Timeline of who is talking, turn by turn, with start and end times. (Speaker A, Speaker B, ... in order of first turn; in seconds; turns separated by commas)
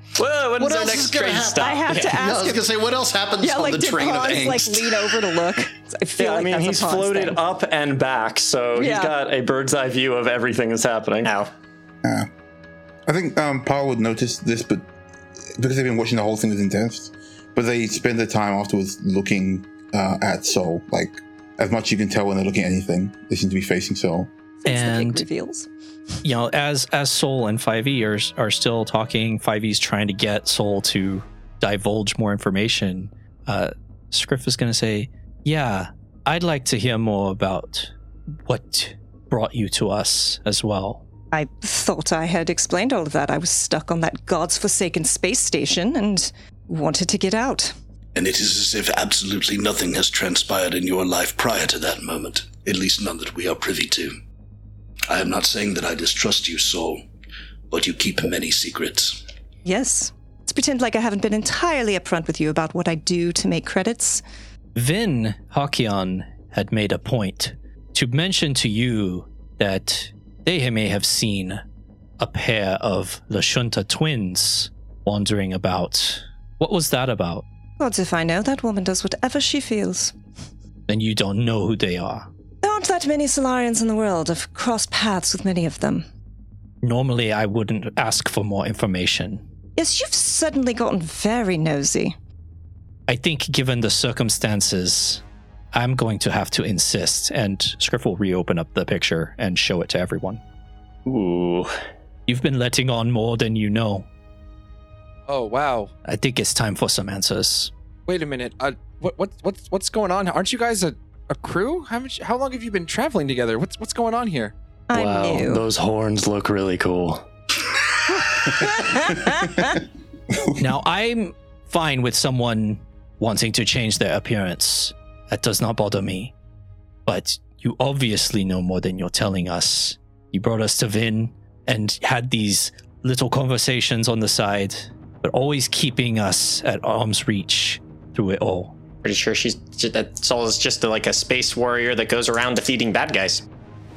Speaker A: 0.2-2.0, Speaker B: 0.6-5.5, Speaker C: 1.5-2.6, Speaker C: 3.4-7.4, Speaker A: 6.2-11.3, Speaker C: 8.7-9.1, Speaker D: 11.2-11.5, Speaker E: 13.1-14.8, Speaker E: 15.5-24.3, Speaker C: 24.6-25.7, Speaker F: 24.7-25.2, Speaker F: 26.2-37.9, Speaker F: 38.4-41.0, Speaker C: 41.3-47.7, Speaker B: 48.1-54.2, Speaker B: 55.1-57.0, Speaker B: 57.7-59.2, Speaker C: 59.6-64.2, Speaker F: 64.7-71.6, Speaker F: 72.2-77.4, Speaker C: 77.8-80.1, Speaker F: 80.9-82.3, Speaker C: 82.6-86.0, Speaker F: 86.8-89.4, Speaker C: 89.8-92.1, Speaker F: 93.1-95.2, Speaker F: 95.7-100.4, Speaker D: 101.1-101.6, Speaker A: 101.1-101.6, Speaker F: 102.3-104.1, Speaker G: 105.3-105.9, Speaker F: 106.0-107.7, Speaker G: 108.1-114.5, Speaker C: 114.9-115.6, Speaker A: 114.9-117.2, Speaker A: 118.4-118.7, Speaker C: 118.6-119.4, Speaker F: 120.6-126.3, Speaker F: 127.0-138.8, Speaker D: 139.0-143.4